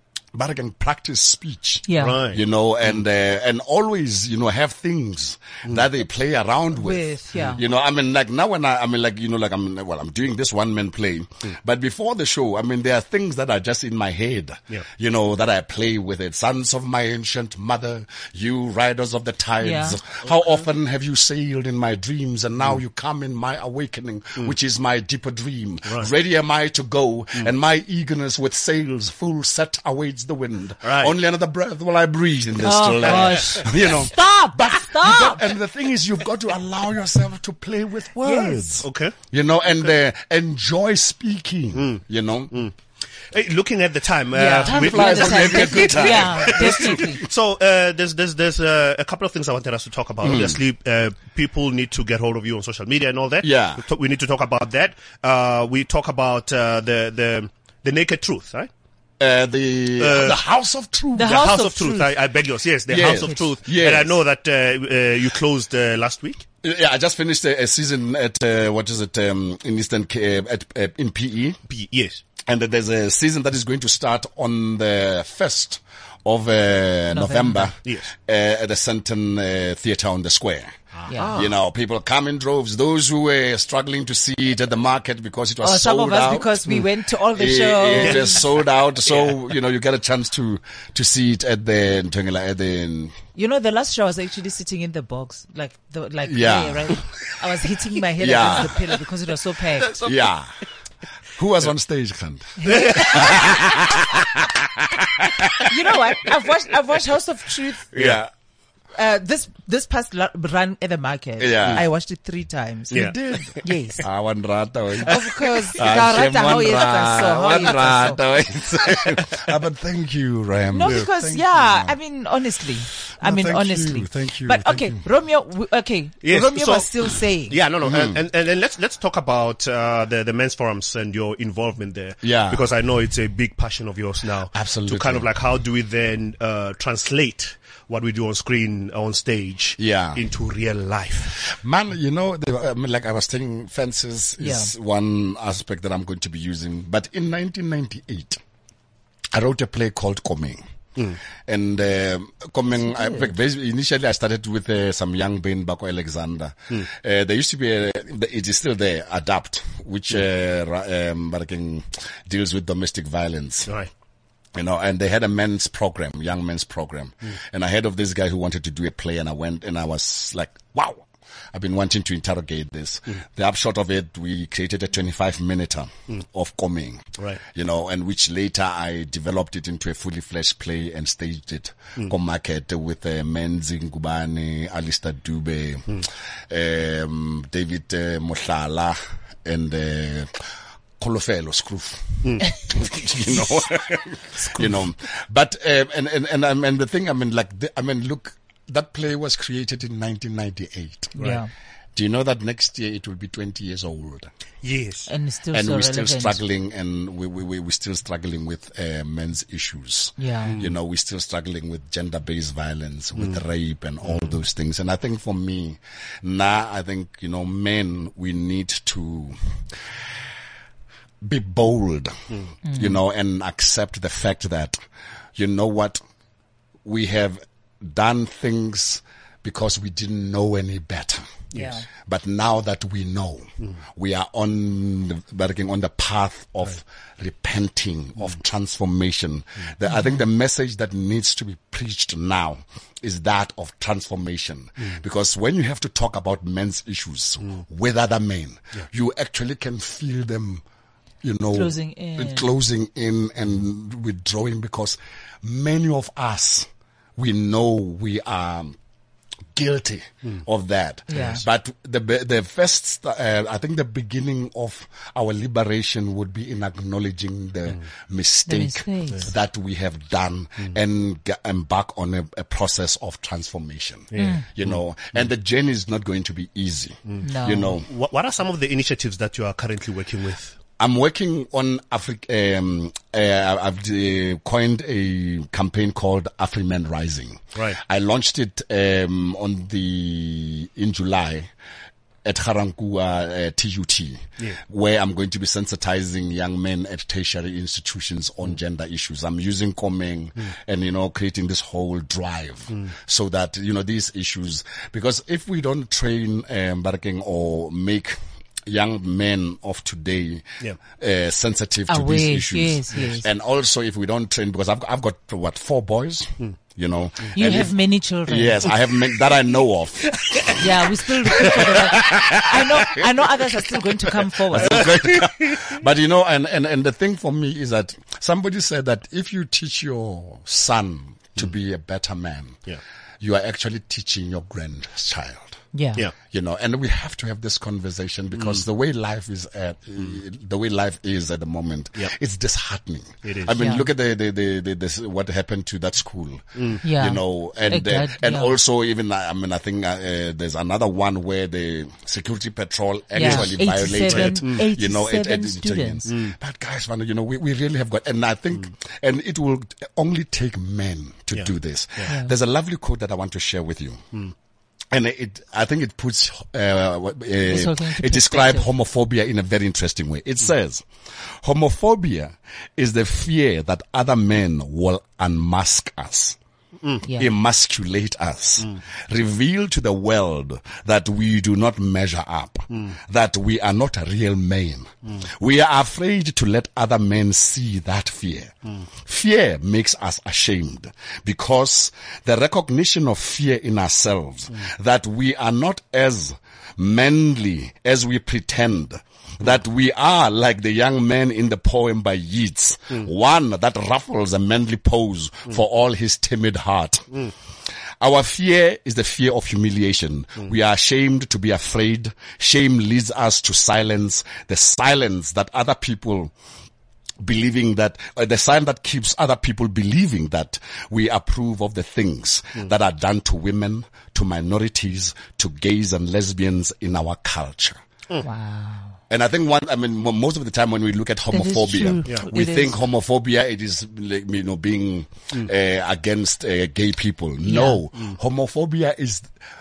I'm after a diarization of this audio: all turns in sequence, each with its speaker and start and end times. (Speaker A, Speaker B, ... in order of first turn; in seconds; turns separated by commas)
Speaker A: 0.3-42.6, Speaker B: 1.9-2.2, Speaker C: 1.9-2.4, Speaker B: 6.8-7.6, Speaker B: 19.6-20.0, Speaker C: 30.8-31.1, Speaker B: 32.6-35.4, Speaker C: 33.0-33.6, Speaker B: 38.2-38.7, Speaker C: 38.8-39.1, Speaker C: 41.7-42.7, Speaker C: 43.3-58.7, Speaker B: 44.3-47.2, Speaker A: 44.6-47.3, Speaker A: 50.2-50.6, Speaker A: 53.4-53.8, Speaker A: 59.2-61.5, Speaker C: 60.0-60.4, Speaker B: 61.1-62.1, Speaker C: 61.2-66.4, Speaker A: 62.9-64.2, Speaker B: 63.1-63.5, Speaker A: 66.6-71.6, Speaker C: 71.7-72.2, Speaker A: 72.4-80.7, Speaker B: 77.1-77.7, Speaker C: 77.8-78.1, Speaker C: 81.0-81.5, Speaker A: 81.3-86.7, Speaker B: 85.6-88.4, Speaker A: 87.3-93.1, Speaker C: 87.9-88.4, Speaker C: 89.0-89.4, Speaker B: 93.3-100.0, Speaker A: 96.3-97.0, Speaker A: 98.2-98.8, Speaker A: 99.9-100.5, Speaker A: 101.3-105.7, Speaker B: 102.6-103.4, Speaker C: 102.7-103.5, Speaker B: 105.6-107.9, Speaker C: 107.9-108.2, Speaker A: 107.9-108.3, Speaker B: 108.9-113.1, Speaker A: 111.4-111.8, Speaker C: 112.9-113.6, Speaker A: 112.9-122.0, Speaker B: 113.6-114.0, Speaker B: 115.0-118.2, Speaker B: 120.7-127.6, Speaker A: 123.2-125.0, Speaker C: 126.2-141.4, Speaker A: 127.8-128.2, Speaker A: 132.2-132.6, Speaker A: 134.5-135.3, Speaker A: 139.8-140.2, Speaker A: 141.3-148.4, Speaker B: 144.4-144.7, Speaker A: 149.3-150.6, Speaker A: 151.5-163.7, Speaker B: 152.8-153.3, Speaker A: 164.5-190.4, Speaker A: 191.0-201.2, Speaker B: 201.2-201.5, Speaker A: 201.9-204.3, Speaker C: 204.6-205.1, Speaker B: 205.1-206.4, Speaker A: 205.5-219.8, Speaker B: 210.2-210.6, Speaker C: 210.4-210.7, Speaker A: 221.2-222.2, Speaker B: 222.6-222.9, Speaker A: 222.7-224.8, Speaker A: 225.3-226.0, Speaker A: 226.8-231.4, Speaker B: 231.5-231.8, Speaker A: 232.0-250.6, Speaker A: 251.2-258.8, Speaker B: 251.5-252.5, Speaker A: 259.5-277.9, Speaker B: 261.1-261.4, Speaker B: 268.5-269.3, Speaker C: 274.1-274.8, Speaker B: 274.1-274.4, Speaker B: 277.2-277.8, Speaker C: 277.8-280.6, Speaker A: 280.8-291.5, Speaker A: 292.2-323.4, Speaker B: 311.9-313.3, Speaker B: 317.3-318.7, Speaker B: 320.5-324.9, Speaker A: 324.2-332.6, Speaker C: 324.8-325.6, Speaker A: 333.2-335.6, Speaker B: 335.7-336.0, Speaker A: 336.1-364.0, Speaker C: 343.2-343.5, Speaker B: 343.6-343.9, Speaker C: 346.6-346.8, Speaker B: 346.8-348.5, Speaker B: 353.1-356.1, Speaker C: 353.2-353.5, Speaker C: 354.1-354.6, Speaker C: 356.1-356.3, Speaker C: 361.3-362.1, Speaker B: 362.1-362.3, Speaker A: 364.9-370.9, Speaker B: 367.4-368.7, Speaker A: 371.4-376.4, Speaker B: 377.0-377.3, Speaker A: 377.1-407.3, Speaker A: 408.0-416.3, Speaker A: 417.2-427.8, Speaker B: 428.2-428.9, Speaker A: 429.1-439.3, Speaker B: 431.3-432.8, Speaker B: 437.4-437.8